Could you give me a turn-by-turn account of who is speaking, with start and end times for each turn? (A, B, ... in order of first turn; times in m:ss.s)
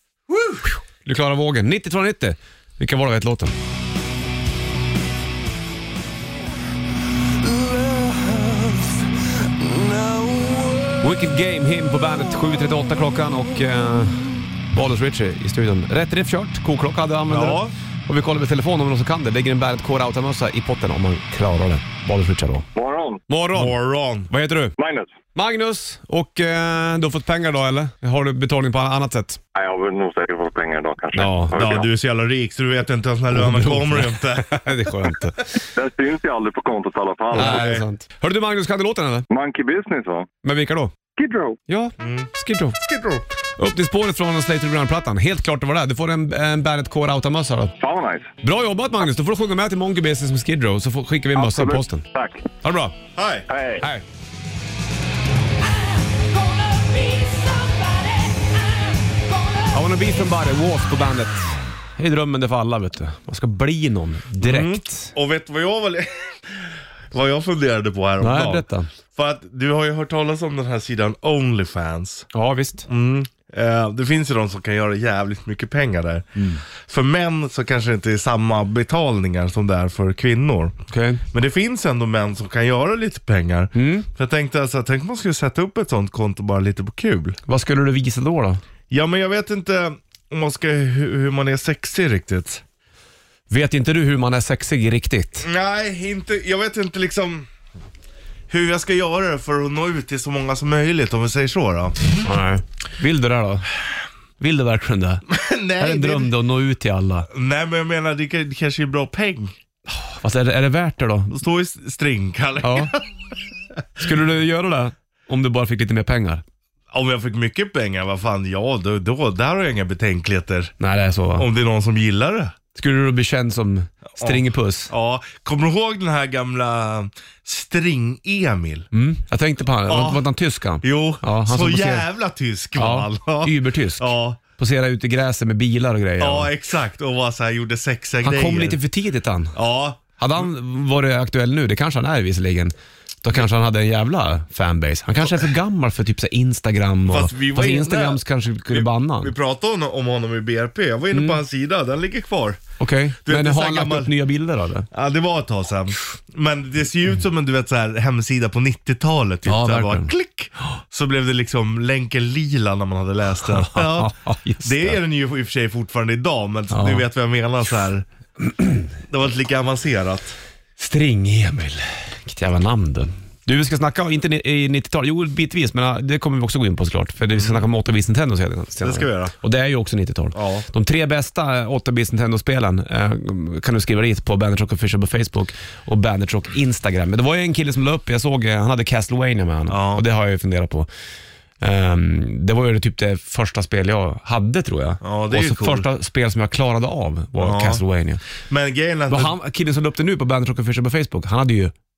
0:00.3-0:00.7 A
0:01.0-0:03.6 B
0:08.0-0:08.6 A
0:09.7-0:10.5 A
0:11.0-0:22.7 B
0:17.3-0:17.7 A
0:22.8-0:23.2 C
0:23.3-0:23.8 B
0:23.5-0:24.3 A
0:24.3-0:24.8 B
0:24.8-0:25.1 C
0:25.4-0:29.4 B
0:29.6-0:31.9 C
0:31.1-0:31.6 B
0:31.5-0:35.1 A
0:33.3-0:35.5 B
0:35.8-0:37.7 C
0:37.3-0:37.9 A
0:37.3-0:39.3 B
0:39.3-0:40.3 C
0:40.4-0:40.9 B
0:41.2-0:41.6 C
0:41.7-0:42.8 B
0:42.0-0:43.2 A
0:43.6-0:47.7 B
0:47.8-0:48.3 C
0:48.4-0:52.0 B
0:51.4-0:52.4 C
0:52.6-0:53.0 B
0:53.2-0:53.5 A
0:53.5-0:53.8 C
0:59.7-1:05.1 B
1:04.4-1:12.3 A
1:08.2-1:08.9 B
1:12.3-1:12.9 B
1:12.9-1:20.8 A
1:20.9-1:21.2 B
1:21.3-1:27.4 A
1:23.7-1:24.1 B
1:27.5-1:28.6 B
1:28.9-1:32.6 A
1:33.5-1:35.5 B
1:35.4-1:37.5 A
1:38.5-1:42.0 A
1:42.2-1:43.7 B
1:44.4-1:45.2 B
1:45.3-1:46.3 A
1:45.8-1:47.3 B
1:47.3-1:49.5 A
1:49.9-1:51.4 B
1:51.3-1:53.1 A
1:52.6-1:52.9 B
1:54.0-1:56.4 B
1:56.9-2:00.7 A
2:00.8-2:01.5 B
2:01.4-2:02.6 A
2:02.8-2:04.9 B
2:04.2-2:08.9 A
2:08.9-2:12.1 B
2:09.9-2:10.2 A
2:10.8-2:14.4 A
2:12.8-2:16.5 B
2:16.2-2:18.8 A
2:18.2-2:19.6 B
2:19.6-2:20.0 A
2:20.2-2:29.3 B
2:27.1-2:32.6 A
2:31.1-2:31.4 B
2:32.8-2:34.9 B
2:33.2-2:34.1 A
2:34.9-2:48.1 A
2:39.5-2:40.1 B
2:43.4-2:45.0 B
2:46.7-2:47.1 B
2:48.4-2:48.9 B
2:49.1-2:50.4 A
2:50.8-3:10.9 B
2:57.3-2:57.6 A
2:58.8-2:59.3 A
3:00.3-3:00.7 A
3:09.7-3:10.0 A
3:11.6-3:18.2 B
3:15.0-3:15.9 A
3:17.4-3:17.8 A
3:18.5-3:19.4 A
3:19.1-3:21.7 B